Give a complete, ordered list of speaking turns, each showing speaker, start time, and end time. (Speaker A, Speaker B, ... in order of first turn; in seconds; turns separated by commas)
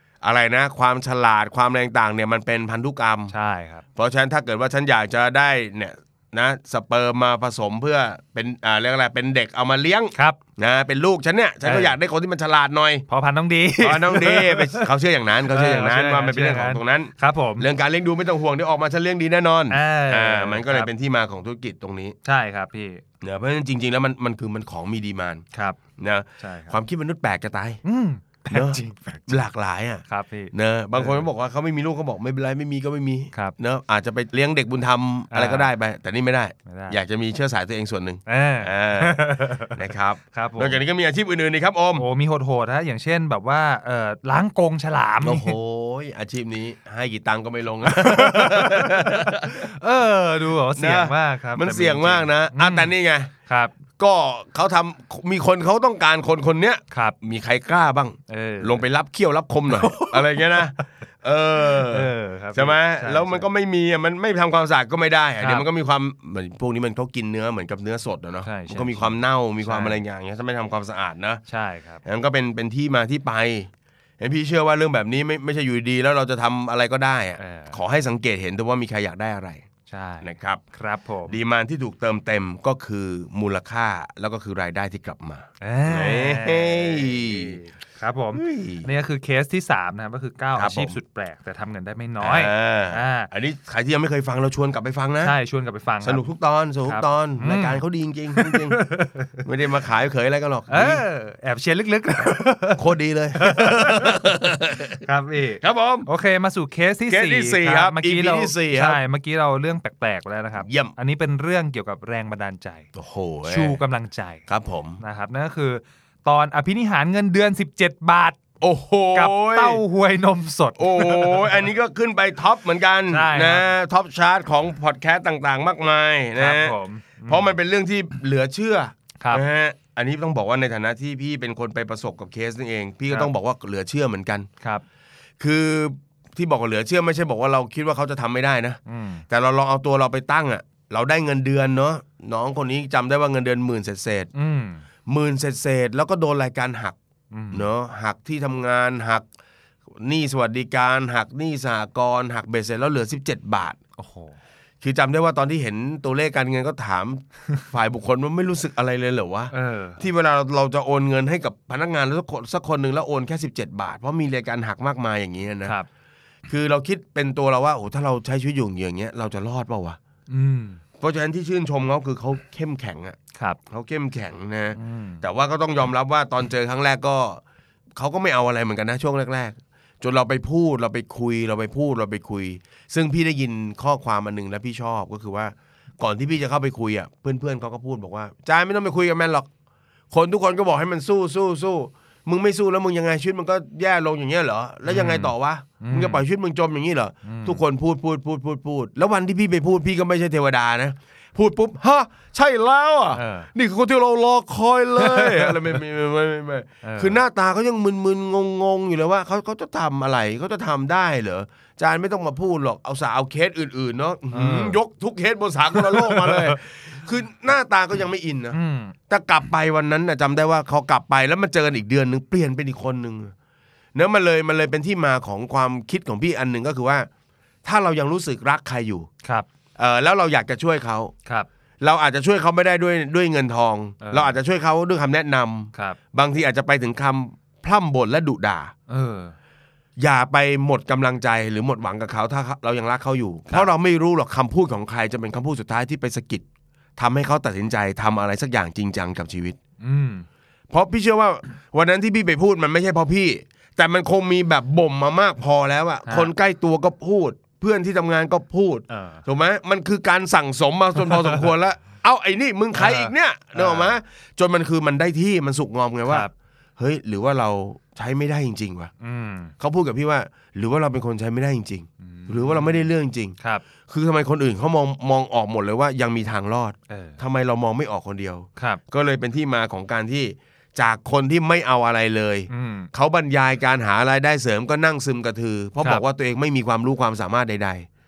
Speaker A: 0.2-3.3, Speaker B: 3.3-3.8, Speaker A: 4.0-13.1, Speaker B: 10.1-10.4, Speaker B: 11.6-12.0, Speaker B: 13.1-14.9, Speaker A: 13.8-22.2, Speaker B: 15.5-17.7, Speaker B: 19.7-20.9, Speaker B: 22.2-23.0, Speaker A: 23.2-25.4, Speaker B: 25.5-25.8, Speaker A: 26.0-27.8, Speaker B: 26.4-26.8, Speaker B: 27.9-29.4, Speaker A: 28.5-42.0, Speaker B: 30.1-31.3, Speaker B: 35.3-35.7, Speaker B: 36.7-37.0, Speaker B: 38.3-40.8, Speaker B: 42.0-45.6, Speaker A: 45.2-49.7, Speaker B: 47.9-52.9, Speaker A: 50.8-53.3, Speaker B: 53.5-53.7, Speaker A: 54.0-71.4, Speaker B: 56.9-57.2, Speaker B: 58.3-58.8, Speaker B: 59.7-60.8, Speaker B: 61.7-63.5, Speaker B: 65.4-65.7, Speaker B: 68.4-70.0, Speaker B: 71.5-72.0, Speaker A: 72.0-79.7, Speaker B: 77.4-77.8, Speaker B: 79.9-81.4, Speaker A: 80.2-80.6, Speaker A: 81.3-87.6, Speaker B: 85.6-93.3, Speaker A: 88.3-88.9, Speaker A: 90.6-91.0, Speaker A: 92.2-95.3, Speaker B: 95.2-96.2, Speaker A: 96.0-98.8, Speaker B: 96.8-97.8, Speaker B: 98.3-99.4, Speaker A: 99.4-101.0, Speaker B: 100.7-104.2, Speaker A: 102.8-105.0, Speaker B: 105.0-112.9, Speaker A: 105.6-106.1, Speaker A: 107.1-109.0, Speaker A: 110.6-110.9, Speaker A: 113.0-113.8, Speaker B: 113.5-114.5, Speaker A: 114.5-115.0, Speaker B: 115.0-118.4, Speaker A: 118.6-119.8, Speaker B: 119.1-121.7, Speaker A: 120.8-126.8, Speaker B: 123.1-123.7, Speaker B: 126.4-127.5, Speaker A: 127.3-134.5, Speaker A: 135.4-138.8, Speaker B: 138.9-139.2, Speaker A: 139.3-144.3, Speaker B: 144.3-144.8, Speaker A: 145.1-147.0, Speaker B: 147.3-147.7, Speaker A: 147.5-149.2, Speaker A: 149.9-153.8, Speaker B: 154.0-154.4, Speaker A: 154.8-165.8, Speaker B: 159.5-160.0, Speaker A: 166.5-170.0, Speaker B: 170.3-170.8, Speaker A: 171.0-173.2, Speaker A: 173.7-177.4, Speaker B: 174.7-175.2, Speaker A: 178.0-189.5, Speaker A: 190.1-218.6, Speaker B: 194.8-196.2, Speaker B: 197.2-197.6, Speaker B: 203.1-203.5, Speaker B: 205.0-205.8, Speaker B: 206.8-207.2, Speaker B: 214.3-214.8, Speaker B: 215.8-216.6, Speaker B: 218.5-218.9, Speaker A: 219.1-223.3, Speaker A: 223.9-227.1, Speaker A: 227.7-229.1, Speaker A: 229.8-231.1, Speaker A: 231.8-238.7, Speaker B: 234.0-234.4, Speaker B: 235.7-236.0, Speaker B: 238.9-239.3, Speaker A: 240.0-246.4, Speaker A: 247.0-249.6, Speaker B: 249.8-250.3, Speaker A: 250.7-268.9, Speaker B: 256.1-256.3, Speaker B: 258.9-259.2, Speaker B: 261.1-261.4, Speaker B: 262.7-264.0, Speaker B: 269.0-269.5, Speaker A: 269.6-273.4, Speaker B: 272.0-273.6, Speaker A: 273.9-287.9, Speaker B: 276.9-277.2, Speaker B: 278.6-278.8, Speaker B: 282.5-282.9